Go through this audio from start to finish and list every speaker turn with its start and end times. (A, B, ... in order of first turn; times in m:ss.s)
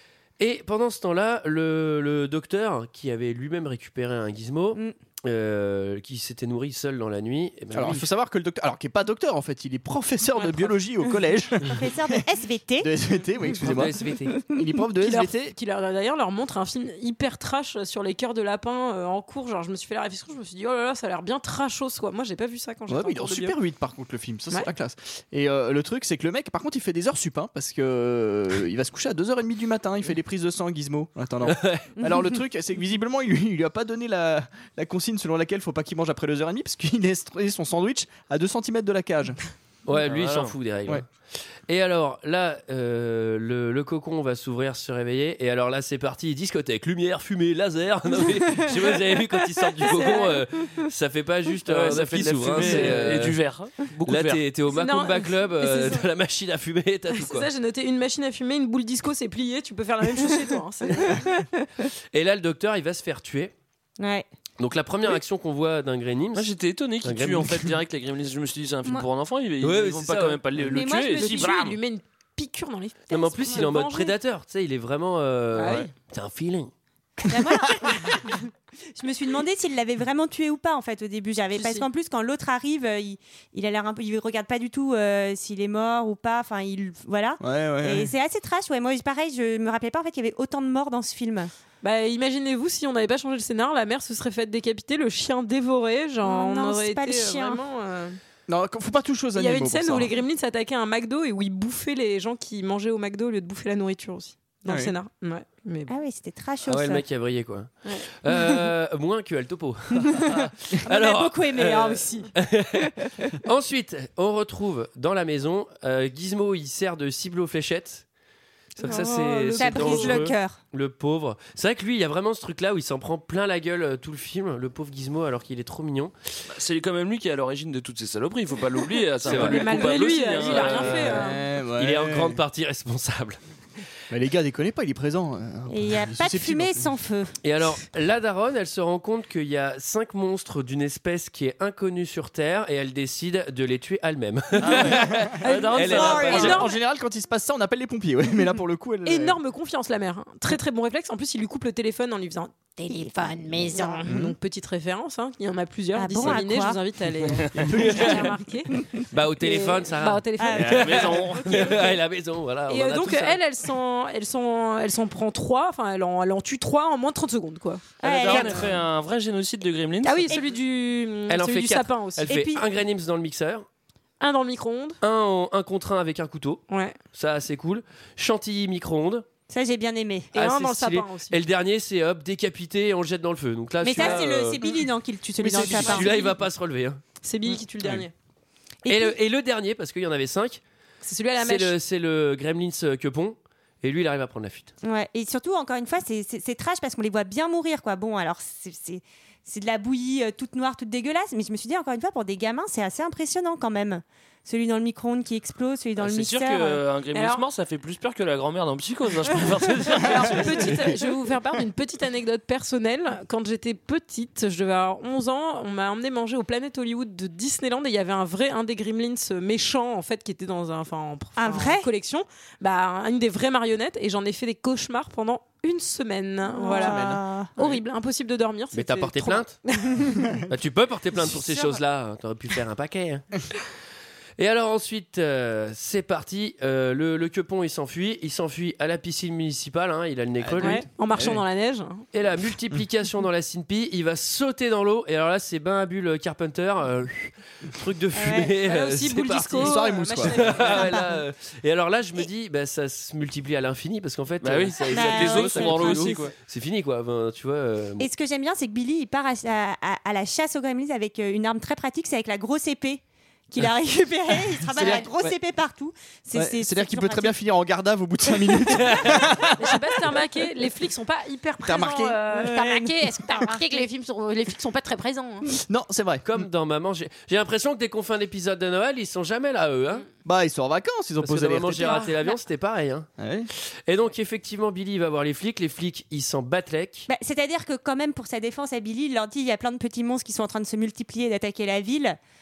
0:00.4-0:08.1 A
0:07.7-0:12.2 B
0:10.3-0:10.7 C
0:11.6-0:12.9 D
0:12.8-0:13.9 B
0:13.6-0:14.4 A
0:14.5-0:15.5 B
0:15.0-0:23.6 C
0:22.9-0:39.4 B
0:31.4-0:31.9 A
0:32.0-0:32.2 D
0:39.8-0:41.0 A
0:40.0-0:40.5 E
0:41.7-0:53.4 A
0:50.0-0:50.3 C
0:51.7-0:54.4 E
0:54.0-0:57.5 A
0:54.7-0:56.0 C
0:57.1-1:01.3 C
1:01.1-1:01.4 D
1:02.1-1:03.5 A
1:04.0-1:04.3 D
1:04.6-1:06.5 A
1:06.3-1:11.7 E
1:07.0-1:07.7 A
1:09.6-1:10.4 A
1:10.7-1:14.1 C
1:10.7-1:11.5 D
1:13.1-1:16.7 A
1:15.5-1:15.9 C
1:17.3-1:31.5 D
1:21.5-1:21.9 C
1:27.4-1:28.1 B
1:31.8-1:38.2 C
1:36.2-1:37.6 D
1:38.5-1:40.1 B
1:39.3-1:45.9 C
1:44.6-1:44.9 B
1:45.9-1:47.0 D
1:46.7-1:58.0 A
1:50.8-1:52.3 D
1:53.0-1:53.3 D
1:58.8-2:00.3 C
1:58.8-2:06.1 A
1:58.8-2:00.6 D
2:06.5-2:11.2 E
2:09.2-2:09.6 A
2:09.2-2:11.4 C
2:10.5-2:10.9 A
2:11.0-2:12.4 B
2:11.8-2:13.4 A
2:14.1-2:16.9 B
2:15.7-2:17.3 D
2:17.4-2:26.6 A
2:24.6-2:26.6 E
2:25.4-2:26.8 C
2:26.3-2:29.4 B
2:29.0-2:38.7 C
2:34.0-2:34.4 B
2:35.9-2:36.8 D
2:37.5-2:38.2 B
2:39.1-2:43.4 A
2:39.4-2:42.0 C
2:40.4-2:41.0 D
2:40.5-2:41.8 E
2:42.7-2:48.5 C
2:48.0-2:48.7 D
2:48.0-2:50.4 E
2:50.0-2:52.3 C
2:51.3-2:53.6 A
2:52.3-2:52.6 D
2:54.2-2:55.0 C
2:55.0-2:59.2 A
2:56.7-2:57.0 C
2:59.5-3:00.3 D
3:00.3-3:01.4 C
3:00.3-3:04.6 A
3:03.8-3:06.3 D
3:05.4-3:06.1 B
3:05.4-3:07.0 A
3:07.2-3:08.1 C
3:08.9-3:09.1 D
3:08.9-3:10.6 A
3:11.0-3:11.8 C
3:11.4-3:14.7 A
3:14.8-3:26.8 D
3:26.0-3:31.0 E
3:27.1-3:27.4 C
3:29.9-3:50.4 C
3:41.4-3:41.9 D
3:46.5-3:47.6 D
3:46.7-3:47.2 B
3:48.7-3:49.6 A
3:50.5-3:53.3 A
3:54.4-4:00.9 A
4:00.6-4:02.1 C
4:01.1-4:01.4 B
4:02.1-4:18.1 A
4:08.2-4:08.6 D
4:08.6-4:11.2 C
4:09.6-4:10.5 B
4:14.4-4:16.3 E
4:14.9-4:16.2 D
4:18.0-4:27.3 D
4:24.6-4:25.4 B
4:26.3-4:30.1 B
4:28.9-4:29.3 A
4:29.6-4:35.5 C
4:31.6-4:32.2 B
4:32.3-4:33.8 D
4:35.6-4:36.3 B
4:36.2-4:40.0 A
4:40.2-4:42.1 B
4:41.2-4:47.1 A
4:41.8-4:42.4 C
4:43.2-4:43.5 B
4:47.1-4:52.2 D